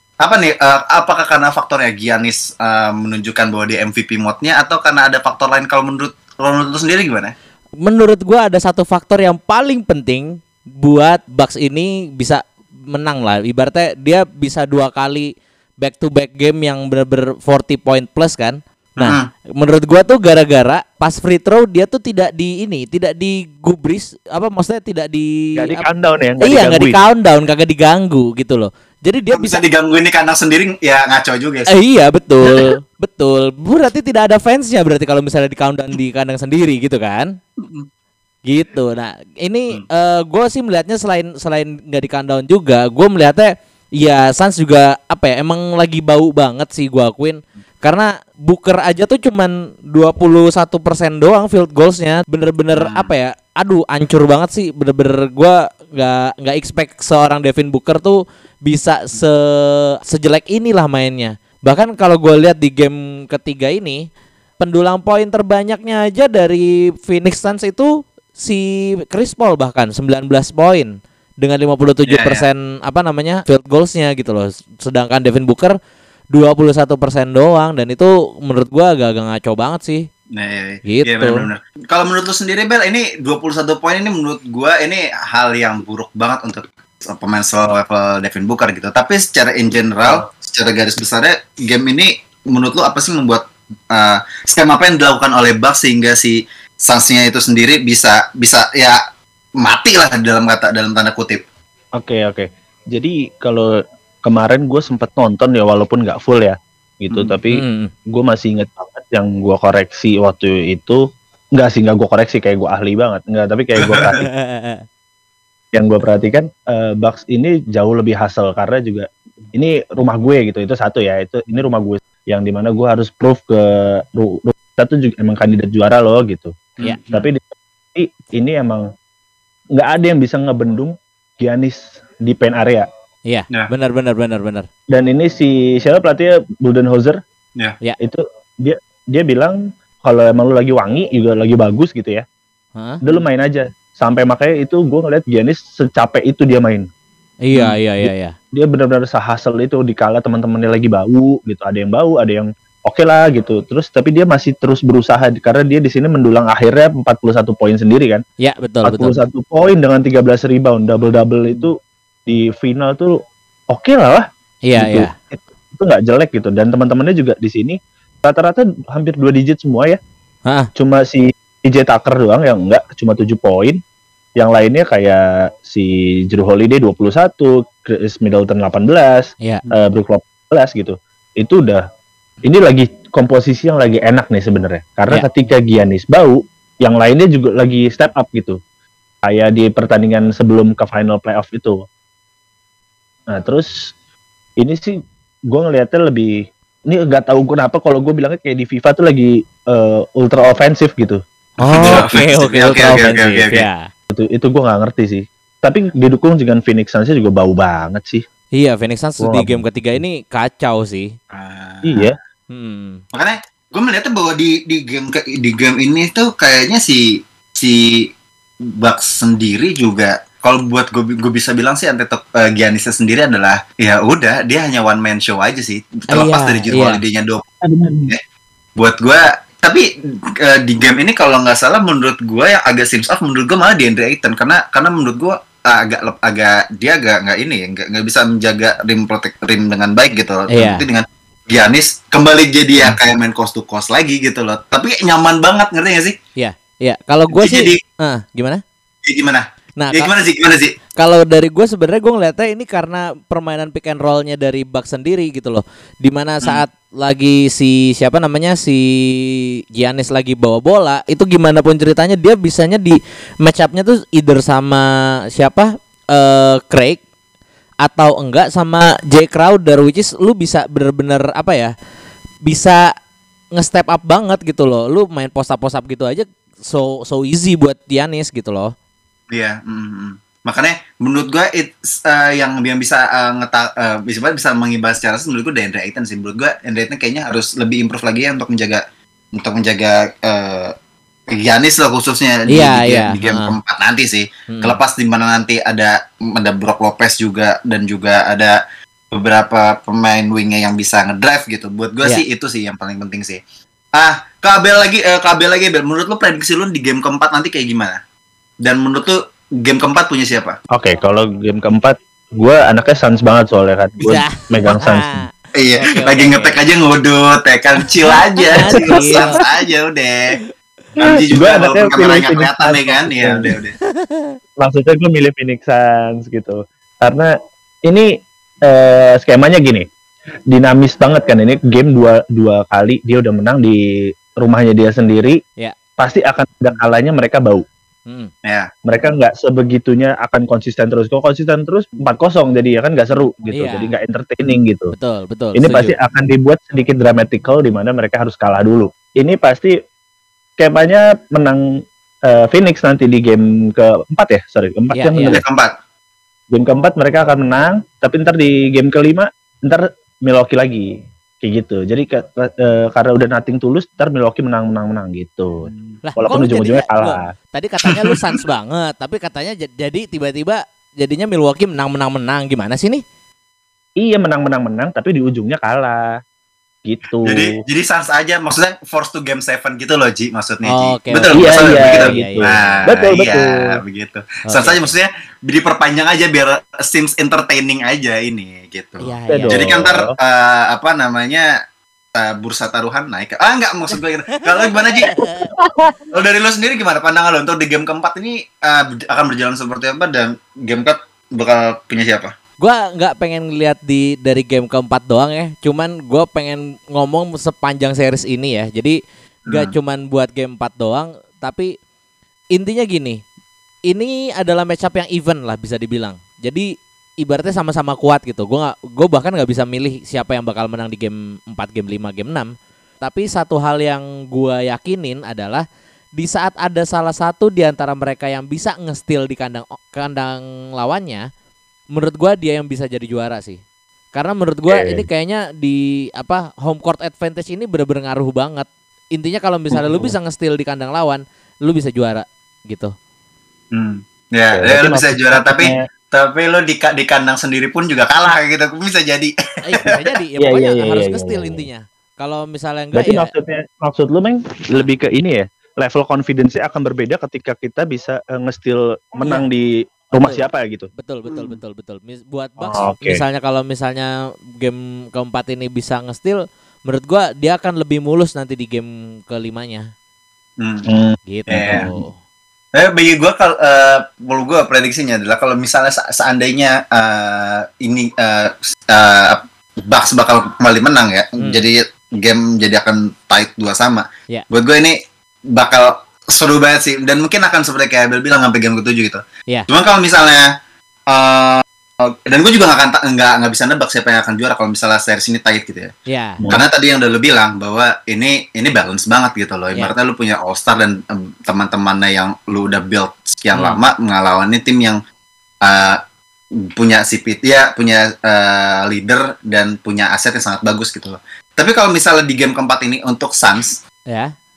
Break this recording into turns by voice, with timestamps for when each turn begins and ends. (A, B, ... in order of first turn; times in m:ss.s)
0:00.2-0:07.3 A
0:07.8-0:12.4 B
0:12.9-0:15.3 B
0:15.8-0:25.8 B
0:19.0-0:19.3 A
0:25.6-0:27.0 C
0:26.4-0:29.6 B
0:29.3-0:31.7 A
0:31.7-0:37.3 B
0:37.6-0:37.9 A
0:38.5-1:04.0 B
0:52.8-0:53.1 A
1:04.6-1:15.8 B
1:12.1-1:12.5 A
1:16.3-1:20.0 B
1:20.4-1:39.0 A
1:20.8-1:21.4 B
1:39.6-1:41.4 A
1:42.0-1:43.7 C
1:44.2-1:51.0 C
1:47.1-1:47.4 A
1:47.5-1:47.9 B
1:51.6-1:54.3 C
1:54.2-1:54.8 B
1:55.7-2:07.4 C
2:06.8-2:07.2 A
2:07.9-2:08.8 C
2:09.8-2:12.9 C
2:13.3-2:14.7 B
2:14.9-2:17.2 C
2:18.0-2:22.2 C
2:23.0-2:26.9 C
2:27.4-2:28.3 B
2:27.6-2:38.2 C
2:38.4-2:39.2 B
2:38.8-2:41.7 C
2:42.3-2:43.1 C
2:43.7-2:50.0 C
2:44.6-2:45.1 B
2:50.8-2:53.8 C
2:54.4-3:01.8 C
3:02.4-3:08.6 C
3:09.2-3:11.8 C
3:13.3-3:13.7 C
3:14.6-3:14.9 C
3:15.5-3:16.3 C
3:16.9-3:21.2 C
3:21.6-3:23.7 A
3:21.6-3:23.8 B
3:24.1-3:28.2 C
3:28.6-3:31.1 B
3:29.2-3:29.6 C
3:31.3-3:32.1 A
3:31.8-3:32.1 C
3:32.5-3:33.0 B
3:33.1-3:37.0 A
3:37.6-3:38.1 A
3:38.8-3:47.4 A
3:46.1-3:47.0 B
3:47.6-3:48.1 C
3:48.8-3:49.8 A
3:50.4-4:06.2 A
4:00.5-4:00.8 B
4:06.4-4:08.6 B
4:07.3-4:07.8 A
4:09.0-4:10.8 A
4:09.8-4:10.1 B
4:11.0-4:24.8 B
4:25.4-4:27.0 B
4:27.8-4:31.7 B
4:32.4-4:32.8 B
4:33.6-4:38.7 B
4:39.3-4:48.8 A
4:49.3-4:50.7 A
4:51.3-4:58.6 A
4:52.5-4:53.6 B
4:54.5-4:54.8 B
4:59.1-5:03.4 A
5:04.0-5:08.0 A
5:08.6-5:10.6 A
5:10.7-5:15.2 C
5:14.0-5:15.3 B
5:15.6-5:20.2 A
5:15.8-5:16.6 B
5:18.5-5:19.4 B
5:18.6-5:19.3 C
5:21.0-5:23.7 A
5:21.0-5:23.5 C
5:24.0-5:24.3 B
5:24.6-5:27.3 C
5:28.7-5:29.9 C
5:30.5-5:33.8 C
5:34.4-5:35.4 C
5:36.0-5:37.6 C
5:38.4-5:38.7 A
5:38.9-5:44.9 C
5:43.5-5:43.9 B
5:44.9-5:46.0 B
5:45.5-5:49.7 C
5:50.6-5:51.6 C
5:52.3-5:55.4 C
5:54.9-5:55.4 B
5:55.2-5:55.7 A
5:56.5-6:00.9 C
6:01.4-6:07.3 C
6:05.6-6:06.0 A
6:06.0-6:13.0 B
6:14.0-6:16.0 C
6:16.8-6:17.5 C
6:17.2-6:31.5 A
6:20.6-6:22.9 B
6:21.3-6:23.5 C
6:24.5-6:24.9 B
6:29.0-6:29.6 B
6:29.3-6:30.1 C
6:32.2-6:35.1 A
6:34.5-6:35.5 B
6:35.6-6:35.9 C
6:36.1-6:42.4 A
6:42.6-6:49.0 B
6:49.5-6:49.8 A
6:49.5-6:51.7 B
6:52.5-6:53.2 B
6:53.9-6:56.6 B
6:57.2-7:02.5 B
7:03.0-7:05.6 B
7:06.2-7:11.2 B
7:11.9-7:13.6 B
7:14.1-7:22.9 B
7:14.7-7:15.1 C
7:19.7-7:20.1 C
7:23.7-7:29.3 A
7:24.6-7:25.8 C
7:29.6-7:33.3 B
7:30.4-7:31.7 C
7:32.9-7:40.9 C
7:40.2-7:40.5 B
7:41.0-7:49.9 B
7:41.3-7:41.6 A
7:42.6-7:43.2 C
7:50.6-7:50.9 A
7:50.9-7:52.0 C
7:51.3-7:52.2 B
7:51.5-7:51.9 A
7:52.8-8:05.0 A
8:05.5-8:10.4 A
8:11.1-8:15.9 A
8:16.1-8:16.4 B
8:16.5-8:25.0 A
8:23.5-8:23.8 B
8:25.6-8:26.0 A
8:26.8-8:33.8 A